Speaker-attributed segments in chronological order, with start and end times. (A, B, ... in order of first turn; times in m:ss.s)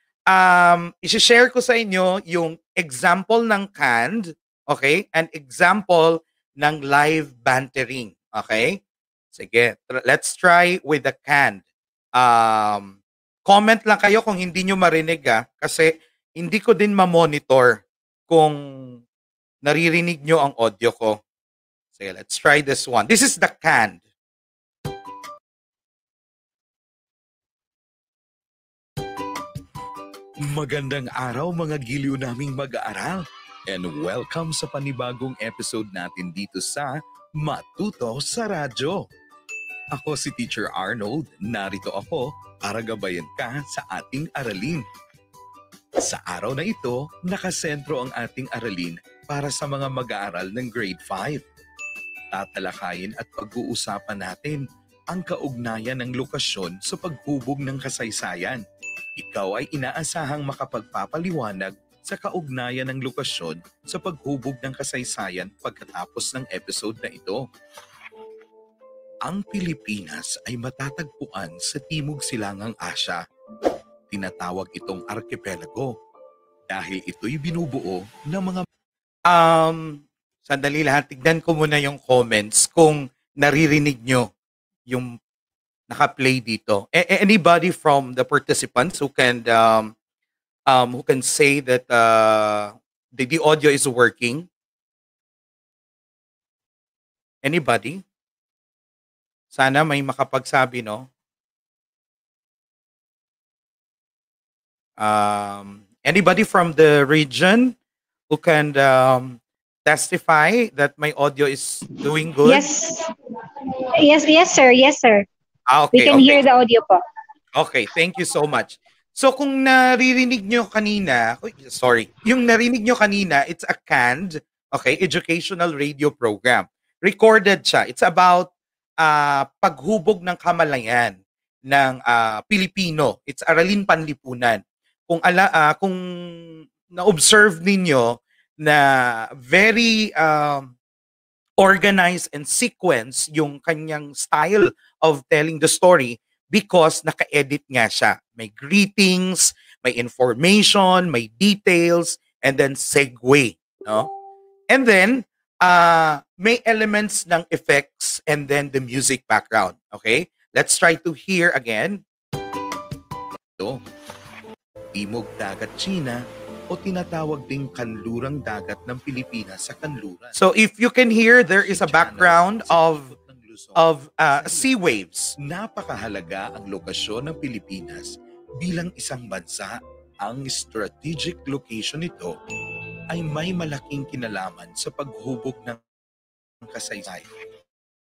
0:00.3-0:08.8 A
0:09.3-0:11.6 A
0:12.2-0:18.6 A
0:19.6-0:21.2 A
0:22.0-0:24.0 A
0:30.4-0:39.0 B
0:39.9-0:44.8 B
0:46.0-0:51.4 B
0:52.3-0:58.6 B
0:59.2-1:07.4 B
1:09.2-1:13.2 B
1:14.1-1:15.9 B
1:16.7-1:18.6 B
1:19.3-1:24.3 A
1:24.9-1:25.1 A
1:25.9-1:29.9 A
1:30.7-1:34.5 A
1:37.4-1:38.0 A
1:39.5-1:41.1 A
1:45.0-1:47.7 A
1:48.3-1:52.6 A
1:52.4-1:53.1 C
1:53.8-1:55.3 C
1:55.7-1:56.4 A
1:55.9-1:57.0 C
1:57.6-2:08.5 A
2:09.0-2:11.2 A
2:11.7-2:16.0 A
2:16.9-2:20.7 A
2:21.6-2:34.1 A
2:34.7-2:42.0 A
2:44.9-2:50.4 B
2:50.4-2:53.1 A
2:51.4-2:54.8 B
2:53.8-2:55.3 A
2:55.4-3:02.4 B
3:03.1-3:05.8 B
3:06.6-3:07.3 B